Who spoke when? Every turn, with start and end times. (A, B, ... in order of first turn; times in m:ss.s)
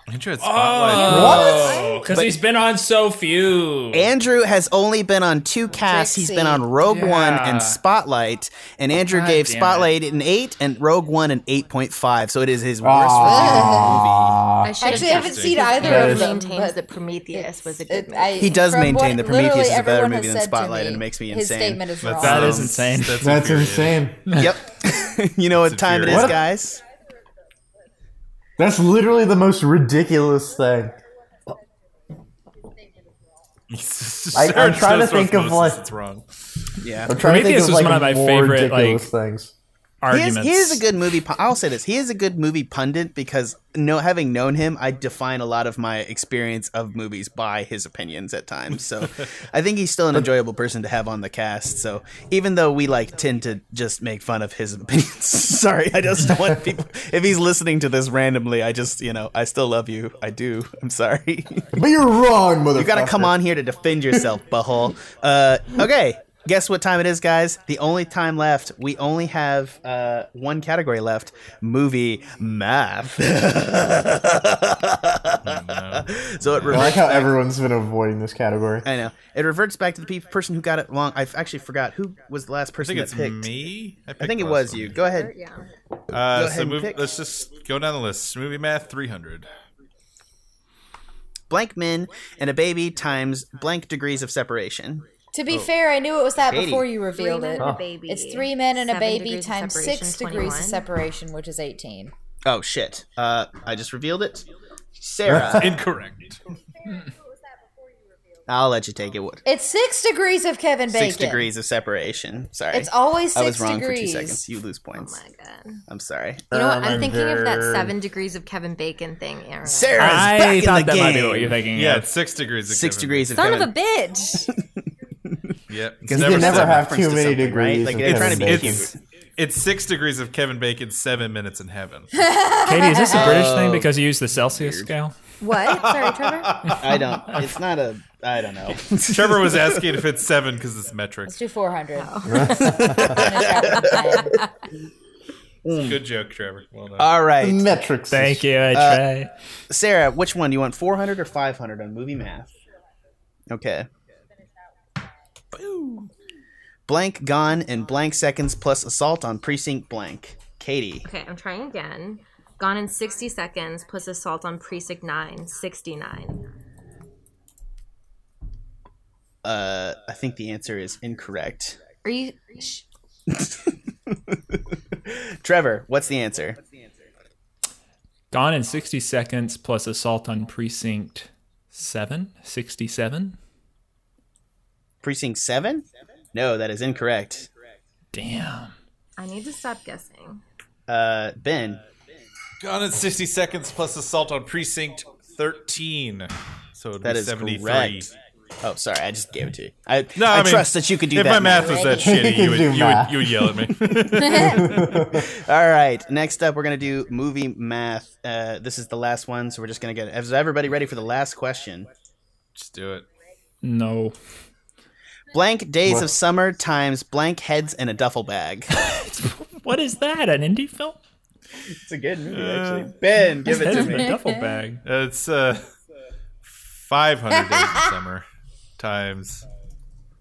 0:00.1-0:01.6 A
0:00.4-0:04.1 B
0:01.0-0:01.8 C
0:01.2-0:02.1 D
0:01.7-0:01.9 E
0:02.1-0:02.4 F
0:03.9-0:14.4 F
0:05.8-0:06.7 E
0:06.8-0:07.8 B
0:09.1-0:10.0 B
0:12.8-0:14.8 C
0:13.3-0:14.0 E
0:14.6-0:18.6 D
0:14.8-0:16.8 E
0:14.9-0:15.8 A
0:15.8-0:16.3 C
0:17.3-0:22.7 E
0:18.4-0:22.7 F
0:22.0-0:24.1 A
0:22.2-0:23.3 B
0:23.2-0:24.3 C
0:24.3-0:26.8 F
0:25.6-0:26.4 A
0:26.1-0:26.4 C
0:28.6-0:31.0 C
0:33.7-0:36.2 A
0:34.3-0:35.9 C
0:36.8-0:37.2 F
0:37.1-0:39.5 C
0:37.1-0:39.1 B
0:40.0-0:40.8 B
0:40.1-1:01.8 F
1:01.8-1:03.4 C
1:02.8-1:17.3 F
1:15.4-1:17.0 A
1:16.7-1:18.9 C
1:18.8-1:23.5 F
1:22.8-1:25.0 A
1:24.2-1:25.3 F
1:25.0-1:25.6 D
1:26.1-1:29.5 A
1:26.3-1:27.0 F
1:31.5-1:35.7 F
1:35.3-1:42.1 E
1:36.5-1:36.9 F
1:37.2-1:40.8 D
1:42.5-1:44.5 F
1:45.0-1:45.8 F
1:45.3-1:46.4 A
1:48.5-1:49.4 F
1:49.4-1:51.5 E
1:50.9-1:55.2 F
1:52.7-1:54.4 E
1:55.0-1:55.8 D
1:55.9-1:56.5 F
1:56.5-1:57.9 C
1:56.5-2:00.3 D
1:59.6-2:01.6 F
2:00.0-2:02.1 B
2:01.7-2:03.5 A
2:02.7-2:03.7 F
2:03.4-2:04.5 D
2:05.7-2:06.9 A
2:06.0-2:09.0 F
2:06.1-2:08.9 C
2:08.0-2:12.1 A
2:12.2-2:13.4 E
2:12.6-2:15.2 B
2:13.1-2:13.9 F
2:14.6-2:14.9 F
2:15.4-2:16.7 D
2:15.7-2:16.8 A
2:16.7-2:20.0 F
2:19.0-2:21.4 A
2:21.3-2:24.4 E
2:22.0-2:24.5 D
2:22.2-2:23.2 C
2:22.7-2:24.2 F
2:25.6-2:26.0 F
2:25.8-2:27.1 A
2:27.0-2:27.7 F
2:27.4-2:28.5 C
2:28.1-2:29.3 B
2:28.7-2:29.0 F
2:29.7-2:32.5 F
2:33.5-2:33.9 F
2:35.5-2:36.1 A
2:36.9-2:41.1 F
2:41.0-2:46.4 D
2:49.4-2:51.8 F
2:52.0-2:52.8 D
2:53.3-2:54.4 F
2:55.0-2:56.6 F
2:58.3-3:03.4 B
3:05.0-3:07.5 F
3:08.1-3:08.7 B
3:09.2-3:10.4 D
3:10.9-3:11.8 F
3:12.6-3:18.1 A
3:17.0-3:22.0 F
3:20.2-3:25.0 A
3:21.5-3:22.2 E
3:22.0-3:23.7 C
3:24.3-3:31.9 F
3:24.3-3:25.3 C
3:32.6-3:33.1 A
3:33.6-3:34.2 B
3:35.3-3:38.7 F
3:38.7-3:41.0 B
3:41.8-3:44.1 F
3:42.3-3:42.9 A
3:43.4-3:44.8 B
3:44.8-3:45.6 A
3:46.4-3:48.2 A
3:48.8-3:49.4 A